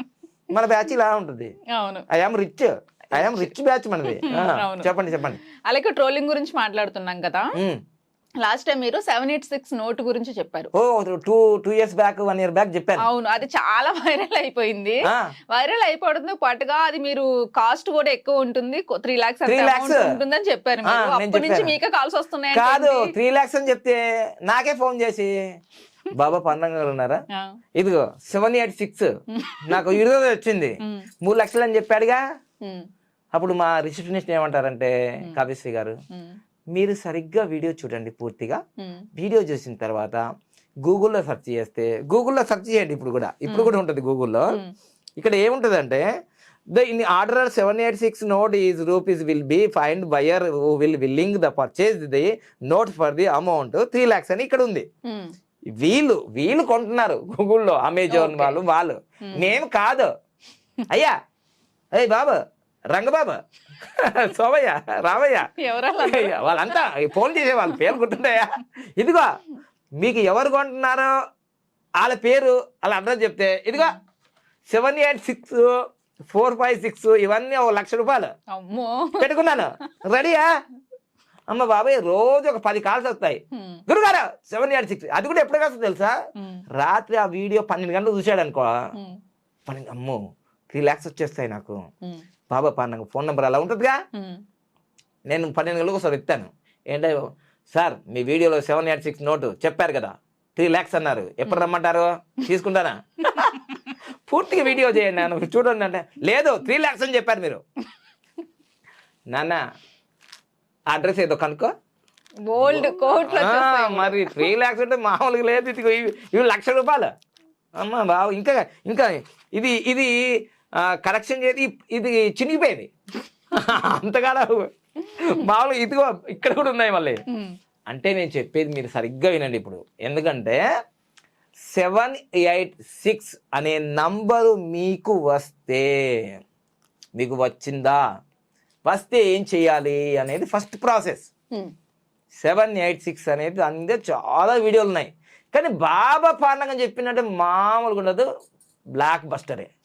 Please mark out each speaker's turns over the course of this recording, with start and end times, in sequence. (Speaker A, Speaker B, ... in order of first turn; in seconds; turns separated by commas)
Speaker A: 0.5-1.5, Speaker B: 1.7-2.0, Speaker A: 2.1-5.4, Speaker B: 3.1-3.5, Speaker B: 4.1-4.9, Speaker B: 5.6-7.5, Speaker B: 8.4-10.7, Speaker A: 10.7-13.1, Speaker B: 13.0-15.0, Speaker B: 15.5-23.1, Speaker A: 19.4-20.1, Speaker A: 20.8-21.7, Speaker A: 22.5-25.3, Speaker A: 26.1-27.2, Speaker A: 27.7-29.1, Speaker B: 29.4-30.0, Speaker A: 29.6-32.2, Speaker A: 33.3-36.0, Speaker A: 36.7-38.6, Speaker B: 38.8-39.0, Speaker A: 39.1-40.2, Speaker A: 40.8-44.5, Speaker B: 43.5-43.7, Speaker A: 45.2-46.0, Speaker A: 46.7-54.9, Speaker B: 55.1-55.3, Speaker A: 55.7-60.1, Speaker B: 58.1-58.6, Speaker B: 59.2-59.6, Speaker A: 60.9-61.1, Speaker A: 61.9-62.4, Speaker A: 62.9-69.3, Speaker B: 65.5-66.8, Speaker B: 67.7-67.9, Speaker A: 70.0-71.1, Speaker A: 72.0-74.0, Speaker A: 74.7-75.8, Speaker A: 76.3-78.3, Speaker B: 78.5-79.8, Speaker A: 79.2-80.5, Speaker A: 81.5-86.1, Speaker B: 83.5-83.8, Speaker B: 86.4-86.6, Speaker A: 86.7-88.8, Speaker B: 88.9-89.2, Speaker A: 89.7-90.2, Speaker A: 90.7-91.8, Speaker A: 92.5-94.0, Speaker B: 94.1-94.4, Speaker A: 95.3-97.2, Speaker A: 97.7-103.7, Speaker A: 104.3-107.6, Speaker A: 109.3-109.6, Speaker A: 110.9-111.7, Speaker B: 112.5-114.5, Speaker A: 112.6-117.1, Speaker A: 117.8-120.1, Speaker A: 120.8-122.9, Speaker A: 123.5-127.2, Speaker A: 127.9-130.6, Speaker A: 131.7-136.4, Speaker A: 137.2-138.0, Speaker A: 138.8-141.3, Speaker A: 142.4-148.3, Speaker A: 148.9-149.7